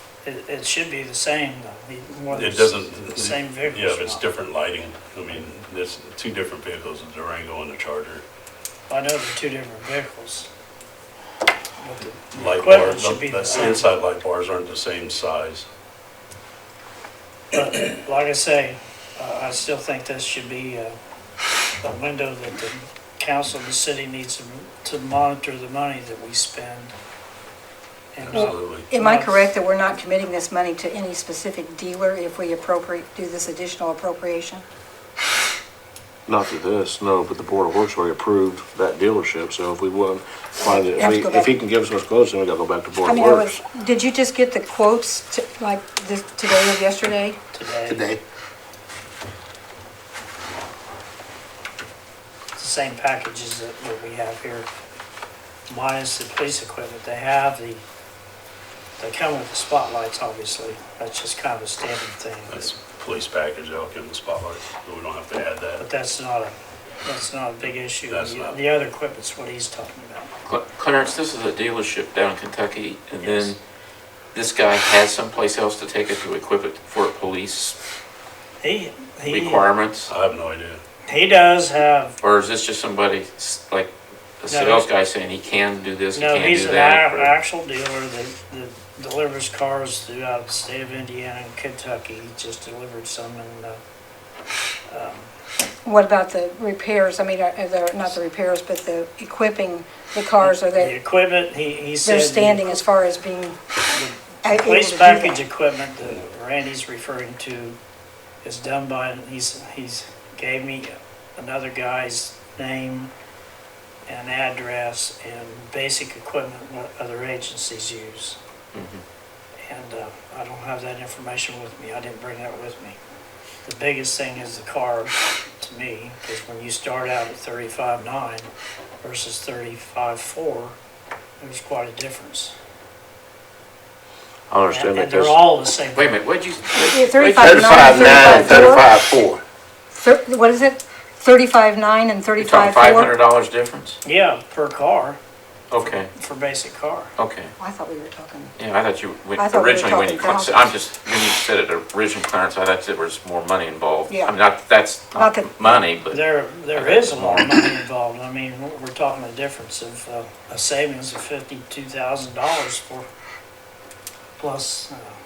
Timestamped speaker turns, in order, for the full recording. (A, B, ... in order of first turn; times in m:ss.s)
0:00.2-0:04.2 A
0:02.3-0:08.2 B
0:08.9-0:10.5 A
0:11.8-0:13.9 A
0:12.3-0:15.7 B
0:17.5-0:21.0 A
0:21.8-0:26.9 A
0:28.1-0:29.4 A
0:28.2-0:28.9 B
0:28.3-0:34.6 C
0:36.3-0:43.6 D
0:40.6-0:41.5 C
0:43.0-0:47.4 C
0:47.5-0:48.1 A
0:47.9-0:48.2 D
0:52.6-0:54.7 A
0:55.7-0:57.8 A
0:59.0-1:02.7 A
1:02.5-1:05.8 B
1:05.8-1:10.3 A
1:08.1-1:08.6 B
1:10.4-1:13.6 E
1:13.2-1:13.5 A
1:14.3-1:17.8 E
1:18.6-1:19.7 A
1:19.3-1:20.1 E
1:20.1-1:20.8 B
1:21.1-1:22.2 A
1:22.2-1:27.3 E
1:24.5-1:24.9 A
1:26.1-1:33.8 A
1:34.9-1:35.3 A
1:35.8-1:41.0 C
1:40.4-1:42.8 A
1:42.0-1:43.6 C
1:43.9-1:47.8 A
1:44.4-1:45.4 C
1:48.4-1:53.1 A
1:54.1-1:58.4 A
1:58.7-1:59.0 E
1:59.6-2:03.0 A
2:03.6-2:08.5 A
2:09.0-2:10.8 A
2:11.4-2:12.5 A
2:14.5-2:15.4 D
2:14.7-2:16.1 A
2:15.9-2:18.8 E
2:16.8-2:18.9 C
2:17.4-2:19.4 D
2:19.9-2:23.1 C
2:22.4-2:24.0 E
2:24.0-2:25.2 A
2:25.7-2:26.1 E
2:25.8-2:27.1 A
2:27.2-2:27.5 E
2:27.6-2:28.5 C
2:28.6-2:37.6 E
2:29.4-2:30.7 C
2:34.1-2:34.4 C
2:35.1-2:35.8 C
2:36.1-2:43.1 A
2:44.4-2:45.2 A